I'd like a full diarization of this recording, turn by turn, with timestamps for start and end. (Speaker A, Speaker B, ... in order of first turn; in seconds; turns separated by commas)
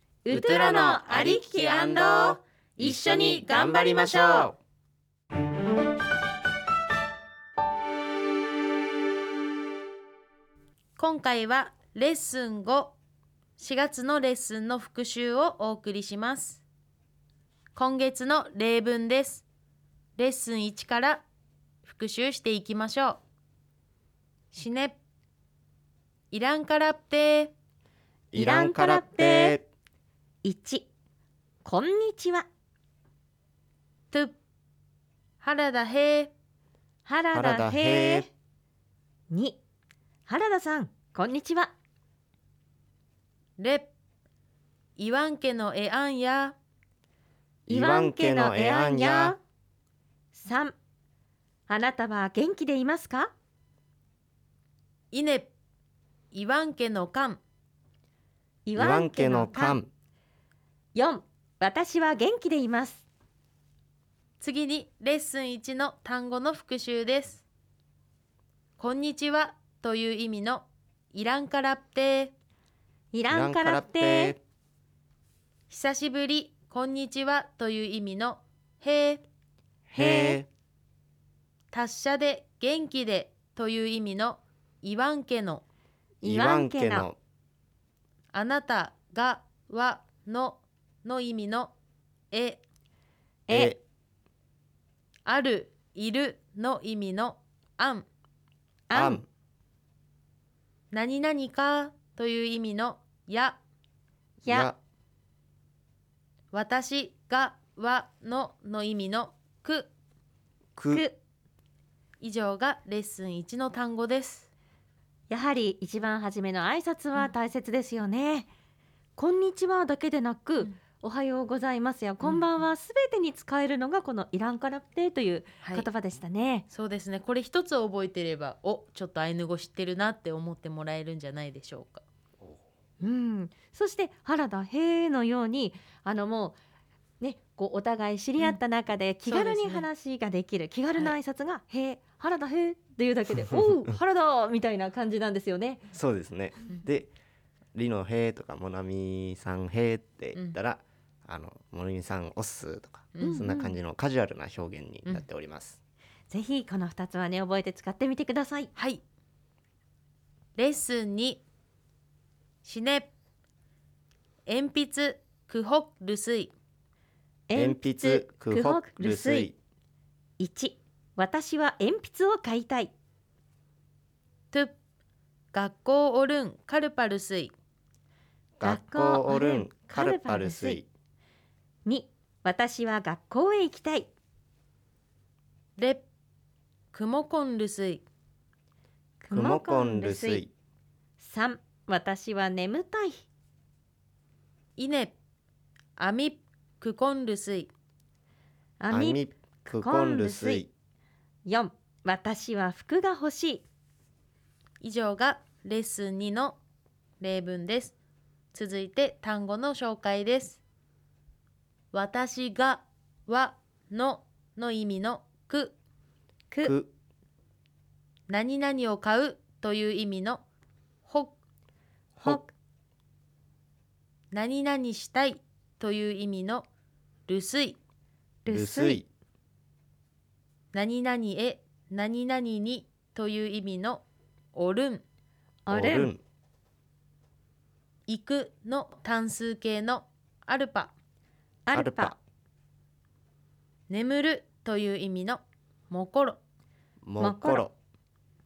Speaker A: 0.2-1.9, Speaker B: 0.3-4.5, Speaker C: 0.3-4.5, Speaker C: 11.0-12.9, Speaker C: 13.6-16.6, Speaker C: 17.7-19.4, Speaker C: 20.2-21.2, Speaker C: 21.8-23.2, Speaker C: 24.5-25.0, Speaker C: 26.3-27.5, Speaker B: 28.3-29.7, Speaker A: 28.3-29.6, Speaker A: 30.4-30.9, Speaker A: 31.6-32.5, Speaker C: 35.4-36.3, Speaker A: 37.0-38.3, Speaker B: 37.3-38.3, Speaker A: 39.3-39.6, Speaker A: 40.2-41.7, Speaker C: 43.6-43.9, Speaker C: 45.0-46.5, Speaker B: 47.7-49.4, Speaker A: 47.7-49.4, Speaker A: 50.3-50.7, Speaker A: 51.7-53.3, Speaker C: 55.1-55.5, Speaker C: 56.3-57.4, Speaker A: 58.6-59.8, Speaker B: 58.8-59.9, Speaker A: 60.9-63.0, Speaker C: 64.4-67.4, Speaker C: 68.8-72.3, Speaker A: 73.1-74.3, Speaker B: 73.3-74.4, Speaker C: 75.7-79.2, Speaker B: 79.9-80.5, Speaker A: 79.9-80.4, Speaker C: 81.7-85.6, Speaker A: 86.2-87.1, Speaker B: 86.2-87.2, Speaker C: 88.3-91.7, Speaker C: 92.3-92.6, Speaker A: 93.5-93.8, Speaker B: 93.5-93.8, Speaker C: 95.2-98.0, Speaker A: 98.9-99.2, Speaker B: 98.9-99.3, Speaker C: 100.9-103.6, Speaker A: 104.4-104.7, Speaker B: 104.5-104.8, Speaker C: 106.5-109.9, Speaker B: 110.8-111.0, Speaker A: 110.9-111.2, Speaker C: 112.2-114.5, Speaker A: 115.3-118.5, Speaker A: 119.2-126.7, Speaker C: 126.7-132.0, Speaker A: 133.0-136.6, Speaker A: 137.2-145.9, Speaker C: 139.3-139.9, Speaker B: 145.9-147.1, Speaker B: 147.7-155.8, Speaker C: 153.1-153.6, Speaker A: 153.2-153.7, Speaker A: 156.3-158.7, Speaker C: 158.8-159.0, Speaker C: 160.6-161.4, Speaker C: 162.6-163.1, Speaker C: 164.4-166.5, Speaker A: 167.5-169.5, Speaker B: 167.5-169.6, Speaker A: 170.4-172.9, Speaker C: 175.5-177.5, Speaker B: 178.6-180.8, Speaker A: 178.6-180.8, Speaker A: 181.8-184.1, Speaker C: 185.8-186.0, Speaker C: 186.9-188.0, Speaker A: 189.2-190.4, Speaker B: 189.3-190.5, Speaker A: 191.2-193.2, Speaker C: 194.8-195.1, Speaker C: 196.0-197.7, Speaker A: 198.8-200.7, Speaker B: 198.9-200.7, Speaker A: 201.4-203.6, Speaker C: 204.8-206.6, Speaker C: 207.2-207.9, Speaker C: 208.5-210.6, Speaker C: 211.9-215.7, Speaker A: 216.5-216.8, Speaker B: 216.6-216.9, Speaker C: 218.3-220.4, Speaker C: 221.1-221.3, Speaker A: 222.2-222.5, Speaker C: 224.3-226.7, Speaker C: 227.3-227.8, Speaker A: 228.4-229.0, Speaker B: 228.5-229.1, Speaker C: 230.7-234.0, Speaker C: 234.5-235.0, Speaker A: 235.7-236.1, Speaker B: 235.7-236.2, Speaker C: 238.1-240.9, Speaker A: 241.7-242.1, Speaker B: 241.7-242.2, Speaker C: 243.9-246.4, Speaker B: 247.0-247.7, Speaker A: 247.2-247.7